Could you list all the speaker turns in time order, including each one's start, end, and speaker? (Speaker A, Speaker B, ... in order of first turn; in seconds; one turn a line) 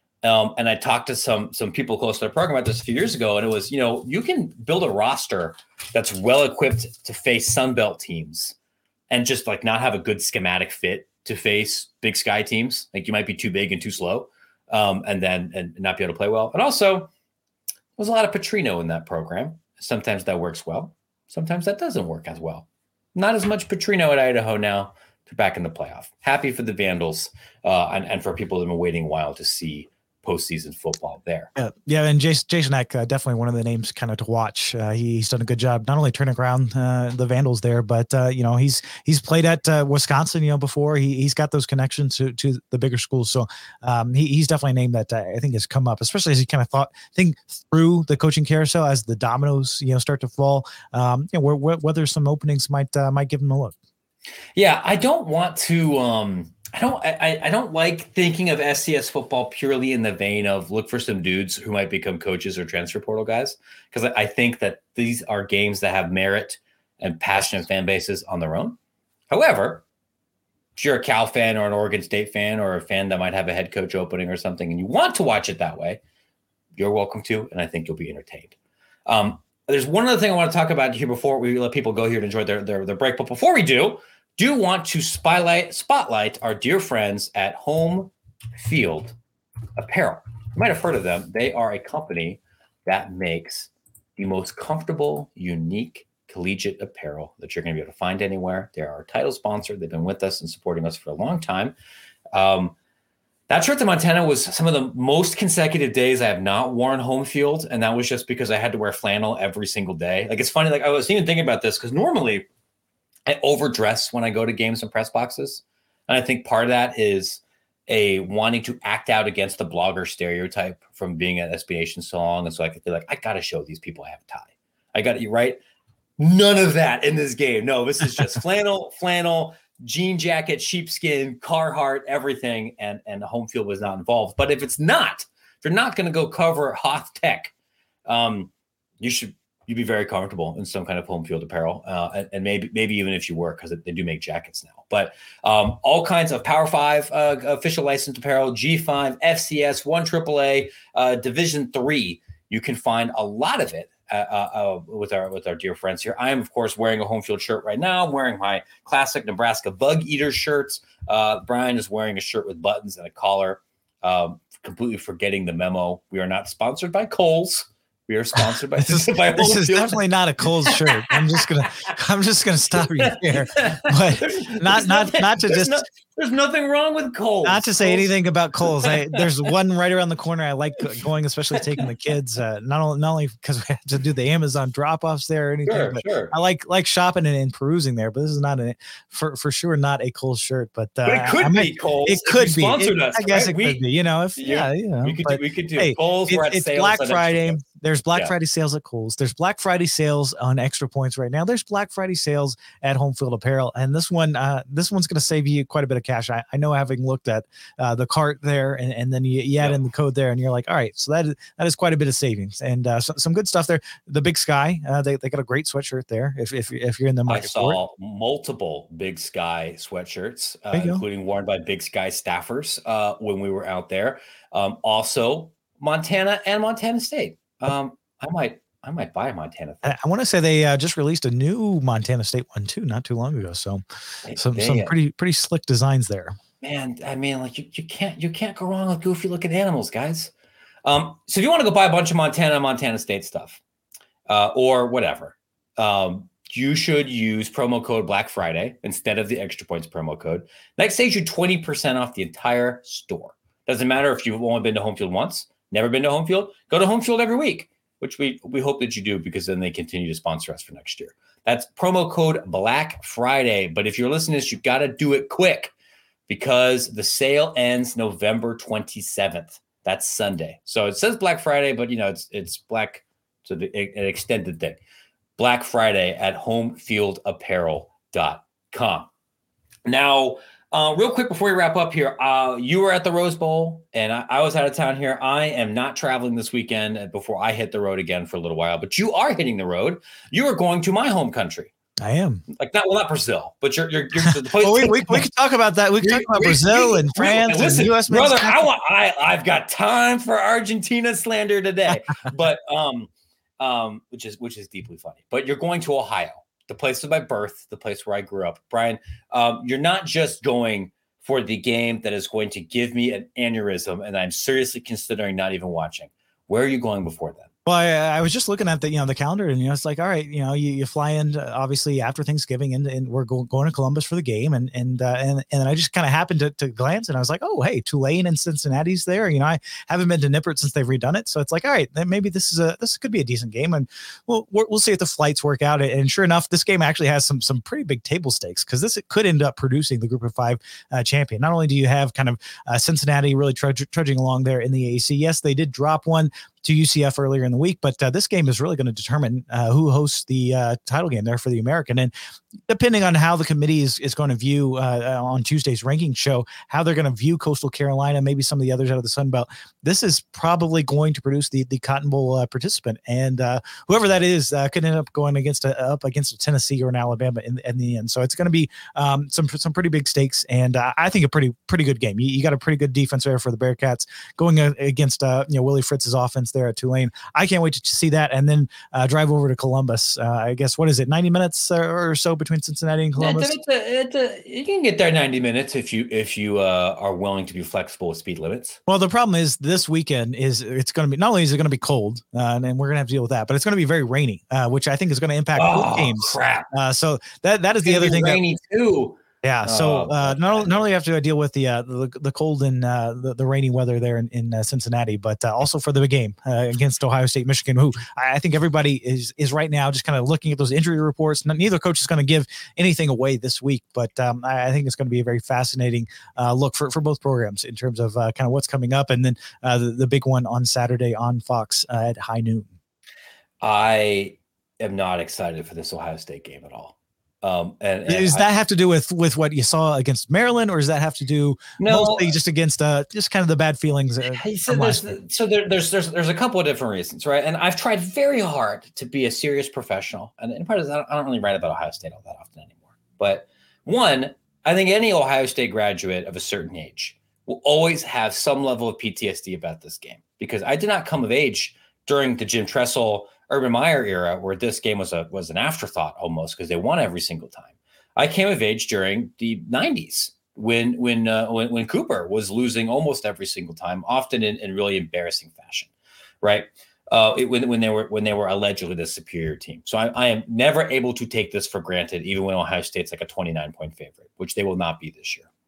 Speaker A: 0.2-8.6
Speaker A: 9.1-17.1
Speaker A: 18.0-31.5
Speaker B: 31.6-53.8
Speaker A: 54.6-68.8
Speaker A: 69.3-69.8
Speaker A: 70.8-76.0
Speaker A: 76.8-89.2
Speaker A: 89.8-101.8
Speaker A: 102.3-102.8
Speaker A: 103.5-112.5
Speaker A: 113.3-125.6
Speaker A: 126.2-137.5
Speaker A: 138.1-171.9
Speaker B: 168.4-175.8
Speaker A: 172.8-178.1
Speaker B: 177.4-217.8
Speaker A: 178.6-179.2
Speaker A: 185.7-186.3
Speaker A: 191.1-193.8
Speaker A: 194.4-197.6
Speaker A: 217.3-230.0
Speaker B: 220.7-221.0
Speaker B: 229.8-233.8
Speaker A: 234.2-234.9
Speaker B: 234.4-236.4
Speaker A: 236.6-240.3
Speaker A: 240.8-243.6
Speaker A: 244.3-265.7
Speaker A: 266.3-274.8
Speaker A: 275.4-279.1
Speaker A: 279.9-291.7
Speaker B: 292.0-292.4
Speaker A: 292.5-295.3
Speaker B: 294.3-298.7
Speaker A: 296.0-317.5
Speaker B: 317.7-352.1
Speaker B: 352.7-383.5
Speaker A: 383.2-388.8
Speaker B: 388.9-398.4
Speaker A: 395.6-396.7
Speaker A: 397.8-400.7
Speaker B: 399.4-422.7
Speaker A: 423.6-428.5
Speaker B: 428.1-435.1
Speaker A: 431.8-432.3
Speaker A: 434.3-465.9
Speaker A: 466.4-475.5